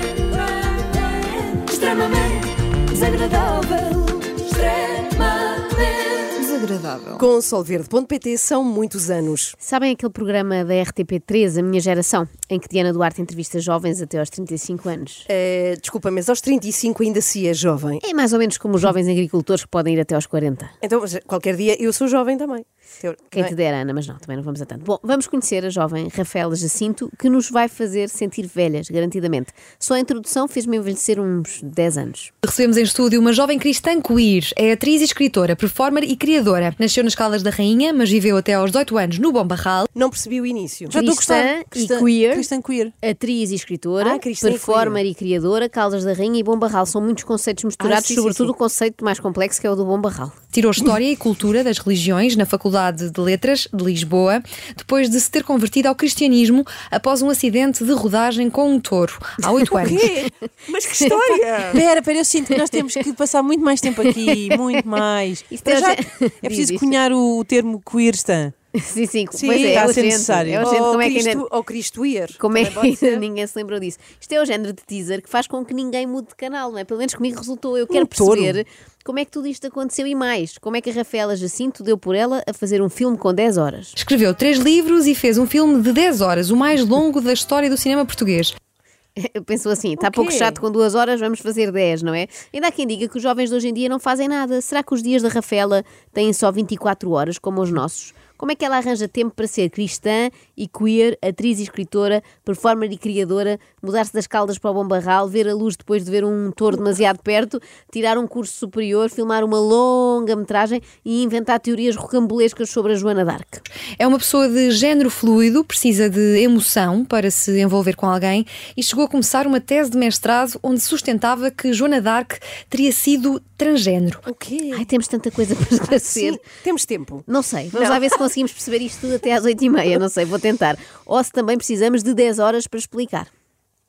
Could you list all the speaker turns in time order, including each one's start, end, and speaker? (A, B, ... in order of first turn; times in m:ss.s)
0:00.2-0:02.4 A
0:01.8-0:04.0 B
0:03.1-0:06.3 A
0:06.4-0:07.3 C
0:07.2-0:09.6 A
0:09.6-0:15.3 D
0:15.3-0:18.0 A
0:18.0-0:20.8 D
0:20.8-0:23.5 A
0:23.3-0:32.3 D
0:32.4-0:39.9 C
0:40.0-0:41.6 A
0:40.9-0:43.0 B
0:40.9-0:42.5 D
0:43.0-0:50.4 D
0:44.0-0:45.0 A
0:47.8-0:48.5 A
0:50.5-1:00.0 C
0:59.8-1:01.8 A
1:01.0-1:01.4 D
1:01.7-1:05.7 B
1:04.0-1:04.8 D
1:05.5-1:07.0 D
1:05.7-1:06.0 A
1:06.4-1:08.5 B
1:08.8-1:11.4 D
1:09.3-1:13.2 A
1:09.5-1:10.7 B
1:12.4-1:24.0 D
1:17.9-1:18.6 A
1:24.0-1:28.5 C
1:29.2-1:53.6 D
1:30.0-1:30.6 A
1:54.0-2:04.2 C
2:04.3-2:04.8 A
2:04.7-2:06.4 D
2:05.9-2:08.2 A
2:07.3-2:13.3 D